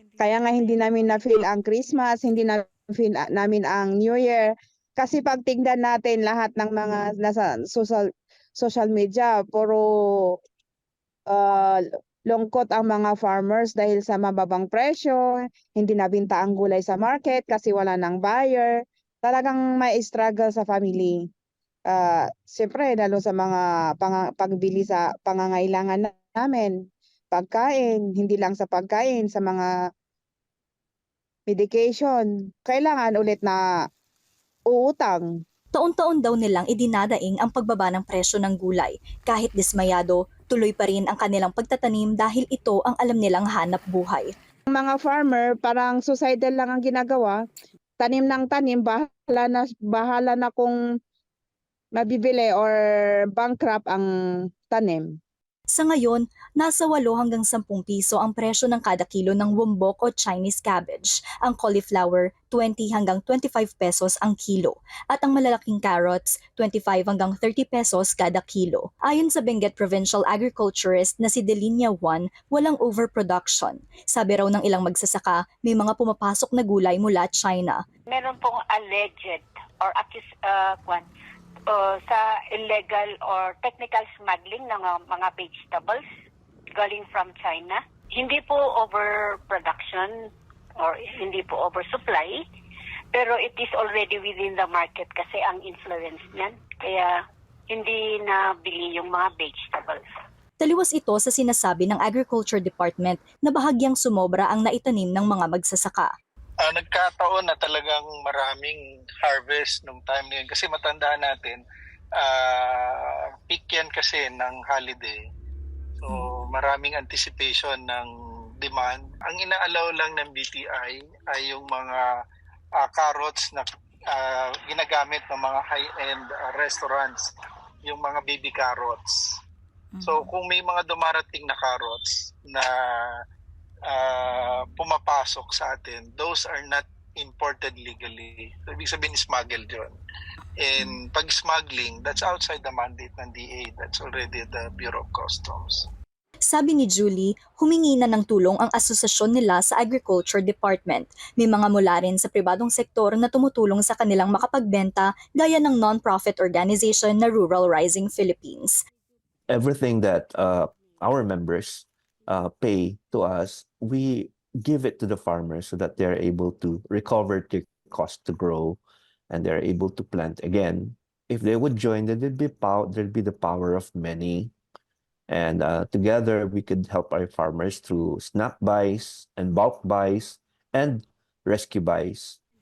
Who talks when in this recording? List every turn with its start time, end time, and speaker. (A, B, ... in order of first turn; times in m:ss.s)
0:00.2-0:08.0 A
0:08.6-0:09.9 A
0:11.3-0:15.2 A
0:15.7-0:21.2 A
0:21.9-0:26.7 A
0:27.3-0:29.7 A
0:31.5-0:33.6 A
0:34.7-0:35.3 A
0:35.7-0:44.3 B
0:44.7-0:47.4 A
0:48.0-0:50.8 A
0:52.0-0:54.1 A
0:54.7-0:55.1 A
0:55.7-1:17.8 B
1:18.1-1:21.1 C
1:21.7-1:26.0 C
1:26.8-1:30.3 C
1:30.8-1:32.4 C
1:33.1-1:40.0 C
1:40.6-1:46.1 B
1:46.6-1:51.6 D
1:52.2-1:55.2 D
1:56.0-1:58.1 D
1:58.6-2:02.1 D
2:02.8-2:07.3 D
2:07.8-2:09.2 D
2:10.0-2:12.7 D
2:13.9-2:20.0 D
2:20.6-2:25.9 D
2:26.5-2:38.8 B
2:39.5-2:48.8 E
2:49.3-2:54.5 E
2:55.3-3:02.4 E